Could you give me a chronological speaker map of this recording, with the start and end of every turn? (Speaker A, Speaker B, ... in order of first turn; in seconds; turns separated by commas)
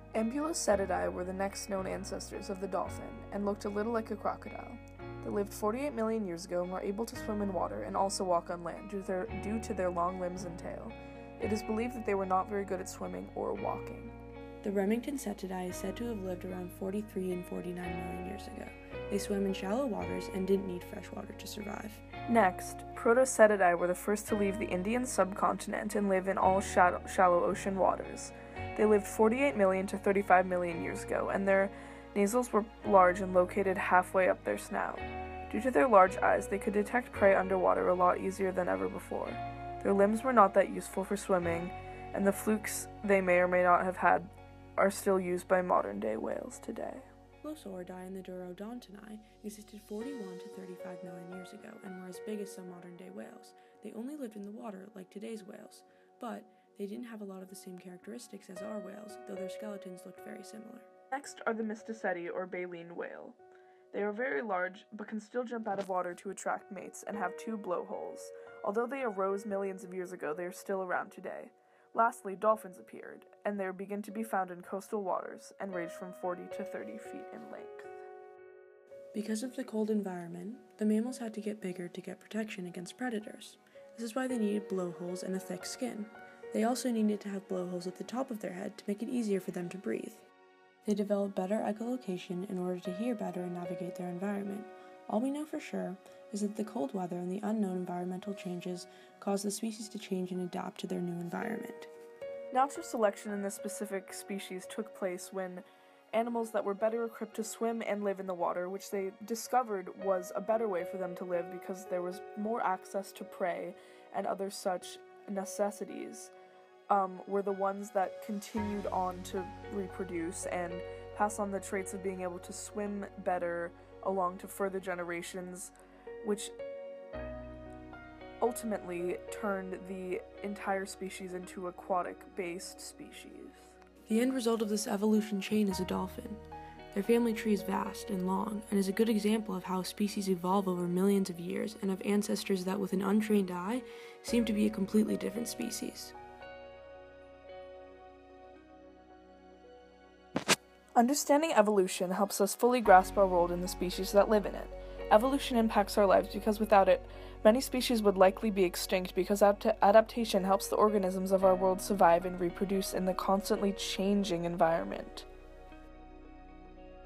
Speaker A: 0.1-14.1, Speaker B: 14.6-22.1, Speaker A: 22.3-47.1, Speaker B: 47.4-60.9, Speaker A: 61.1-63.4, Speaker A: 63.9-78.0, Speaker B: 79.1-90.2, Speaker B: 90.8-101.9, Speaker A: 102.5-116.3, Speaker A: 116.9-126.5, Speaker A: 128.4-133.8, Speaker B: 134.1-136.4, Speaker B: 136.9-146.2, Speaker A: 151.0-165.3